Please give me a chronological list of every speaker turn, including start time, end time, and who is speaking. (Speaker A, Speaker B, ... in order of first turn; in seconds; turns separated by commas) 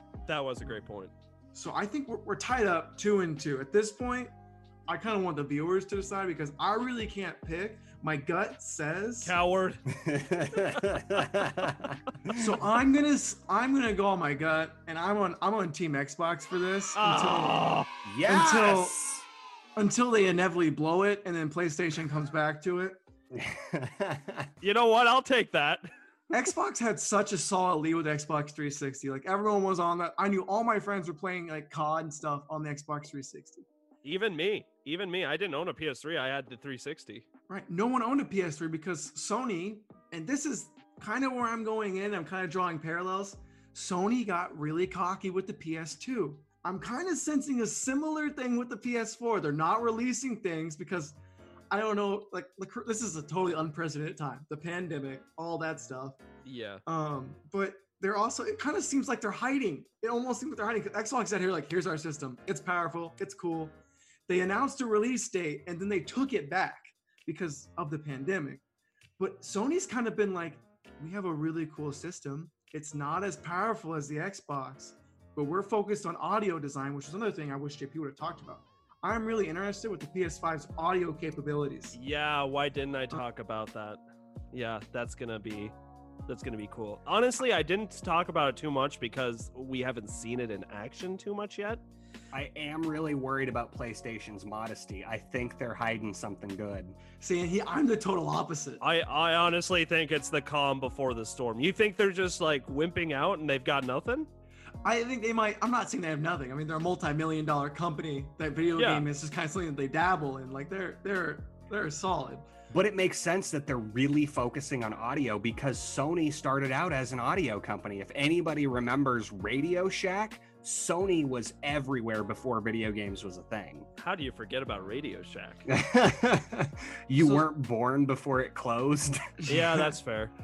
Speaker A: 0.3-1.1, Speaker B: 1.5-4.3, Speaker B: 4.9-9.3, Speaker A: 9.2-9.9, Speaker C: 9.9-12.6, Speaker A: 10.5-10.9, Speaker B: 12.3-19.0, Speaker A: 16.9-17.9, Speaker C: 18.1-19.2, Speaker B: 19.8-23.0, Speaker C: 23.3-24.5, Speaker A: 24.6-25.9, Speaker B: 26.3-33.6, Speaker A: 34.0-37.3, Speaker B: 37.5-51.2, Speaker B: 51.7-56.2, Speaker A: 56.5-56.8, Speaker B: 56.9-68.6, Speaker B: 69.2-82.0, Speaker A: 81.9-84.0, Speaker A: 84.5-85.7, Speaker A: 86.3-91.8, Speaker C: 92.3-97.0, Speaker B: 97.2-98.8, Speaker A: 98.8-104.3, Speaker B: 104.8-112.5, Speaker A: 108.8-109.0, Speaker C: 112.7-123.9, Speaker A: 124.0-125.7, Speaker C: 125.7-129.6, Speaker B: 127.2-127.5, Speaker B: 129.4-129.9, Speaker A: 129.5-130.3